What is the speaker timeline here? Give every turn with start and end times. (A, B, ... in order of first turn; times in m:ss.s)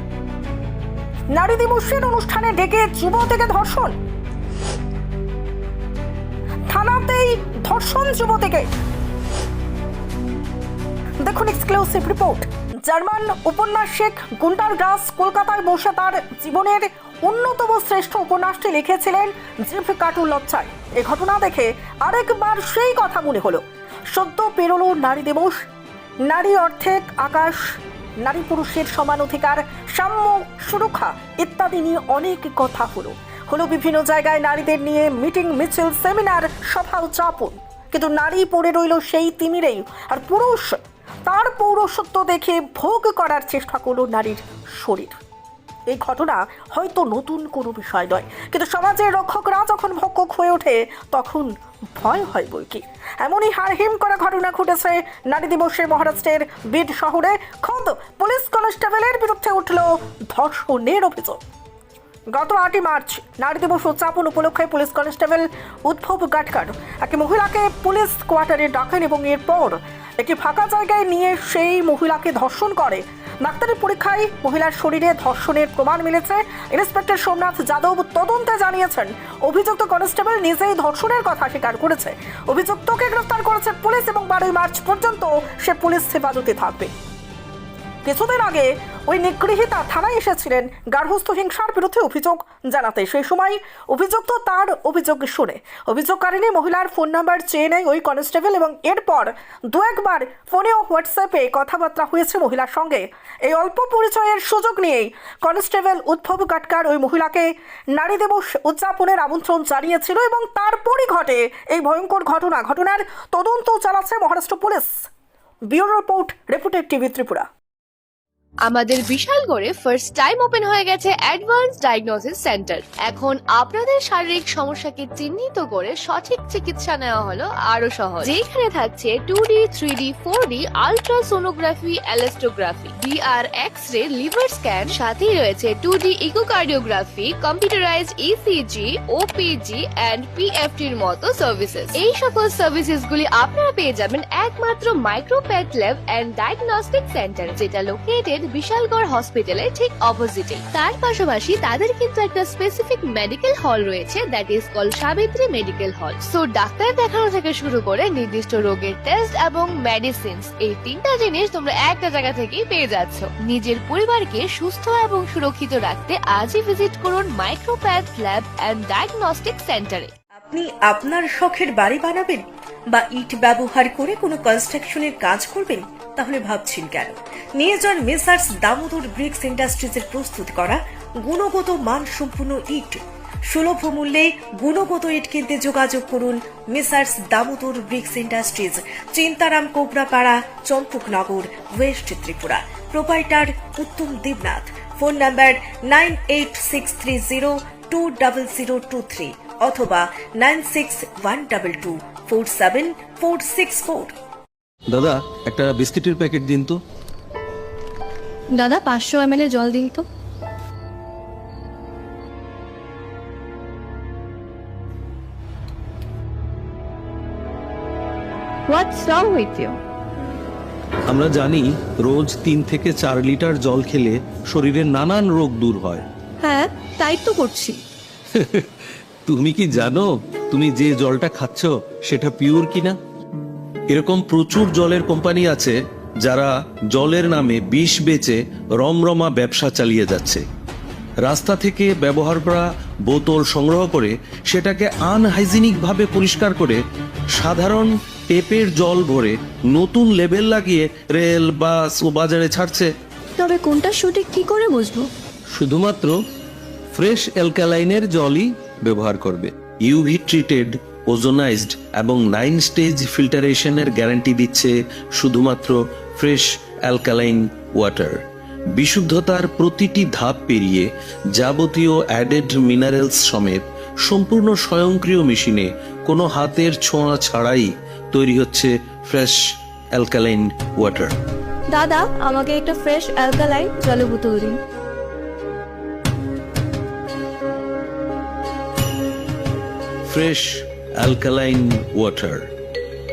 0:01.3-0:03.9 A
0:06.7-0:08.7 A
0:11.2-0:25.6 A
0:26.3-0:45.2 A
0:45.9-1:01.4 A
1:02.3-1:26.9 A
1:28.0-1:55.0 A
1:55.7-1:57.4 A
1:58.6-2:50.1 B
2:50.4-3:24.2 C
3:24.9-3:26.8 D
3:28.5-3:30.0 E
3:38.7-3:39.8 E
3:41.1-3:46.0 D
3:46.4-3:47.8 E
3:48.3-3:48.7 D
3:49.2-3:53.0 D
3:53.9-4:00.4 D
4:01.2-4:06.8 D
4:07.3-4:12.9 D
4:13.4-4:15.1 E
4:15.5-4:16.2 D
4:16.9-4:28.2 D
4:28.7-4:39.4 D
4:39.9-4:41.1 D
4:41.7-4:44.6 E
4:50.0-4:52.5 D